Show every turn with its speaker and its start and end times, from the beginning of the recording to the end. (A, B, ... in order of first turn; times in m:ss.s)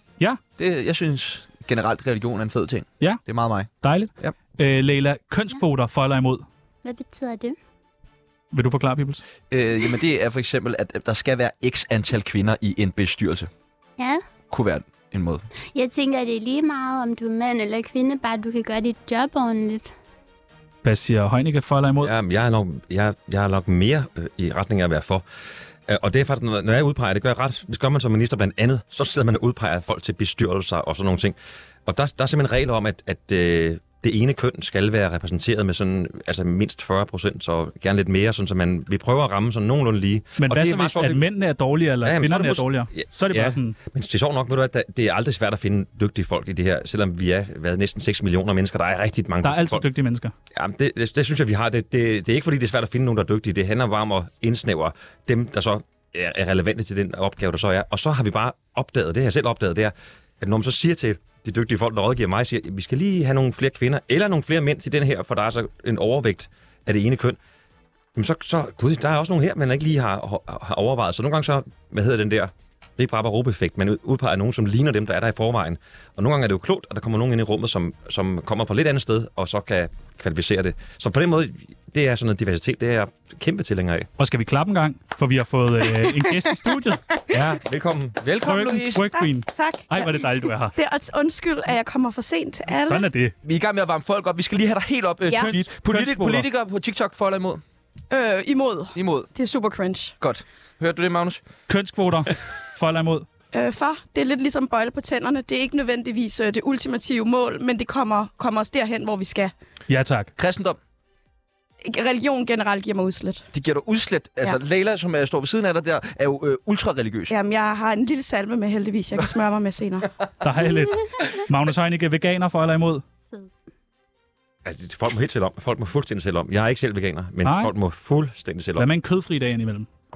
0:00.6-0:04.4 A
0:03.8-0:06.4 B
0:06.8-0:07.6 C
0:08.5-0:09.2 B
0:09.5-0:13.5 A
0:14.5-0:15.4 A
0:15.8-0:19.9 C
0:20.8-0:22.1 B
0:22.0-0:25.2 D
0:25.9-0:41.2 D
0:40.4-0:43.8 B
0:42.0-0:49.9 D
0:49.4-0:50.3 B
0:50.5-1:07.4 D
1:08.2-1:24.1 D
1:24.2-1:27.0 B
1:26.0-1:26.7 E
1:27.3-1:28.2 D
1:28.2-1:29.0 A
1:28.4-1:30.8 B
1:29.1-1:33.1 E
1:32.8-1:33.3 B
1:33.4-1:37.6 A
1:35.3-1:35.6 E
1:35.3-1:36.5 B
1:38.1-1:40.2 E
1:39.0-1:39.3 A
1:40.2-1:41.4 A
1:41.7-1:43.3 B
1:43.5-1:49.5 E
1:49.9-1:50.3 B
1:50.4-1:50.8 A
1:51.8-1:53.4 E
1:53.5-1:57.3 A
1:57.3-2:00.1 E
2:00.4-2:03.0 B
2:04.6-2:08.9 D
2:07.4-2:07.7 B
2:08.8-2:09.9 B